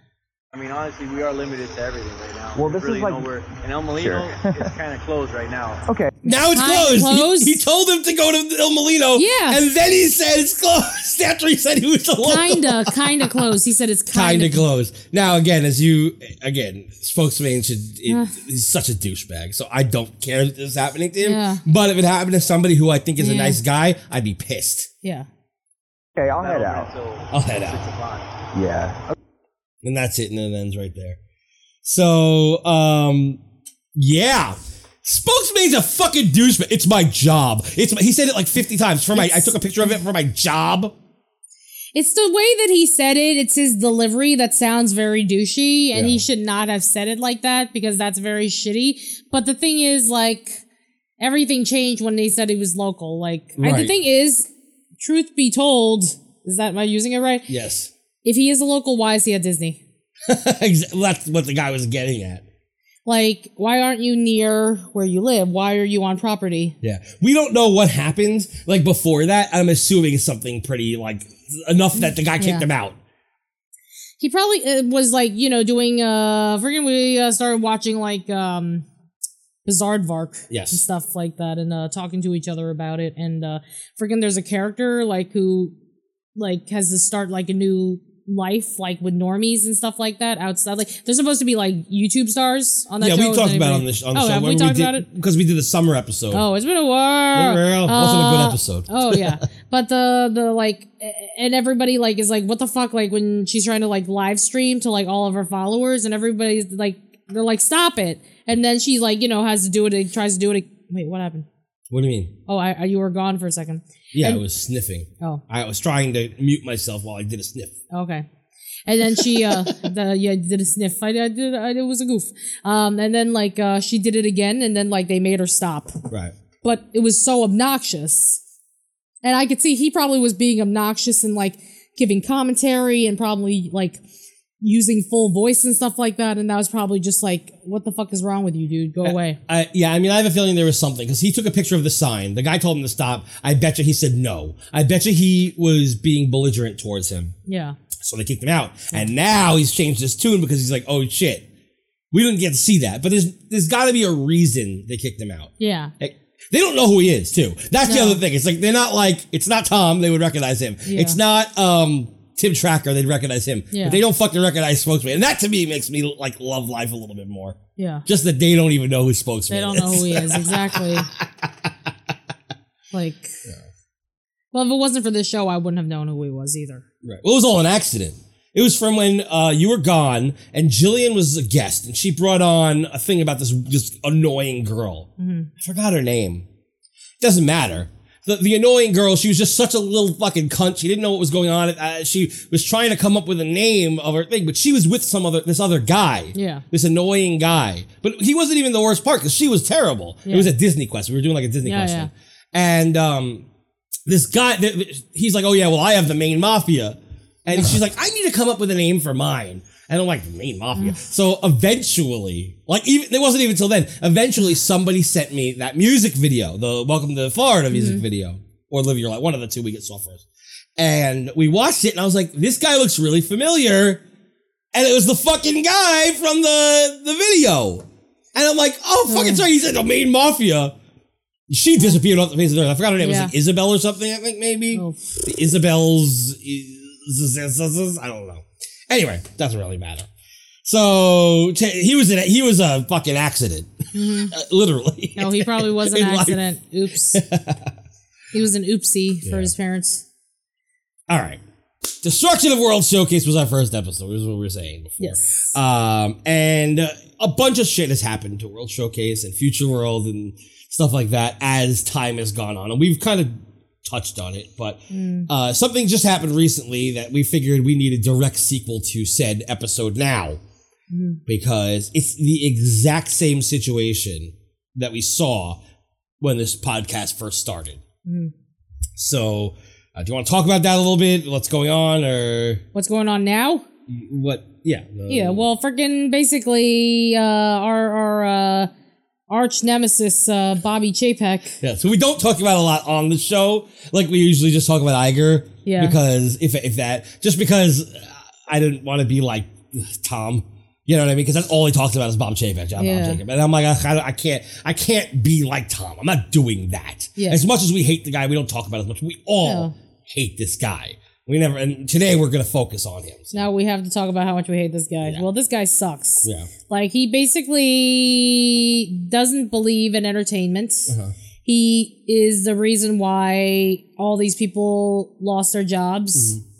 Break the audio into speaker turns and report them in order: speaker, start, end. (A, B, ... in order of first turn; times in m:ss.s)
0:00.5-0:05.8 A
0:02.6-0:03.3 B
0:03.9-0:04.7 B
0:05.9-0:06.2 B
0:06.2-0:13.4 C
0:06.3-0:07.6 D
0:09.1-0:09.6 D
0:12.2-0:14.6 D
0:14.1-0:24.9 C
0:18.1-0:18.3 D
0:21.2-0:21.6 D
0:23.2-0:23.6 D
0:26.2-0:26.9 B
0:26.4-0:28.3 A
0:27.3-0:27.8 C
0:28.5-0:29.1 B
0:29.8-0:31.2 C
0:31.8-0:33.4 C
0:33.9-0:40.9 C
0:39.1-0:39.5 D
0:41.9-0:50.6 D
0:45.9-0:46.2 C
0:51.2-0:57.5 D
0:53.6-0:53.9 C
0:57.5-0:57.9 C
0:58.2-0:59.8 D
1:00.3-1:02.4 C
1:03.0-1:06.8 D
1:06.8-1:13.0 C
1:12.0-1:12.6 D
1:14.2-1:18.8 D
1:19.6-1:25.7 D
1:20.5-1:20.8 C
1:26.4-1:35.1 D
1:33.0-1:36.4 C
1:36.3-1:51.4 D
1:37.3-1:39.4 C
1:51.9-1:52.3 C
1:52.5-1:54.4 D
1:54.1-1:57.7 C
1:57.9-1:58.2 D
1:58.8-2:06.0 D
1:59.3-1:59.7 C
2:06.1-2:06.3 C
2:06.6-2:08.4 D
2:09.2-2:14.0 D
2:14.6-2:19.4 D
2:19.0-2:27.3 C
2:27.4-2:27.8 D
2:28.0-2:31.4 C
2:32.1-2:51.7 C
2:35.6-2:35.9 D
2:37.8-2:38.2 D
2:40.8-2:41.2 D
2:43.7-2:44.0 D
2:47.8-2:48.0 D
2:49.5-2:51.1 D
2:52.9-2:53.4 D
2:54.5-2:56.8 D
2:57.0-3:06.4 C
3:05.2-3:05.5 D
3:07.2-3:23.5 C
3:16.3-3:16.6 D
3:20.2-3:20.5 D
3:21.6-3:22.1 D
3:24.1-3:40.2 C
3:30.8-3:31.0 D
3:37.7-3:38.0 D
3:40.8-3:44.0 C
3:44.7-3:50.7 C
3:49.0-3:49.4 D
3:51.5-4:00.1 C
3:53.0-3:53.3 D
3:54.7-3:55.0 D
4:00.6-4:03.7 C
4:03.9-4:04.3 D
4:04.3-4:06.4 C
4:05.2-4:07.2 D
4:07.1-4:07.7 C
4:08.3-4:10.0 D
4:09.2-4:09.5 C
4:11.1-4:11.4 C
4:12.0-4:30.4 C
4:15.0-4:15.6 D
4:24.9-4:25.3 D
4:30.9-4:31.2 D
4:31.2-4:35.6 C
4:36.2-4:37.8 C
4:38.0-4:38.3 D
4:39.0-4:42.6 C
4:42.7-4:43.6 D
4:43.9-4:45.4 C
4:45.1-4:48.7 D
4:49.3-4:51.6 D
4:51.6-5:13.5 C
4:55.6-4:56.0 D
5:02.8-5:03.2 D
5:07.2-5:07.4 D
5:09.4-5:09.7 D
5:13.3-5:20.9 D
5:16.2-5:16.5 C
5:20.9-5:21.1 C
5:21.4-5:26.3 D
5:26.1-5:26.4 C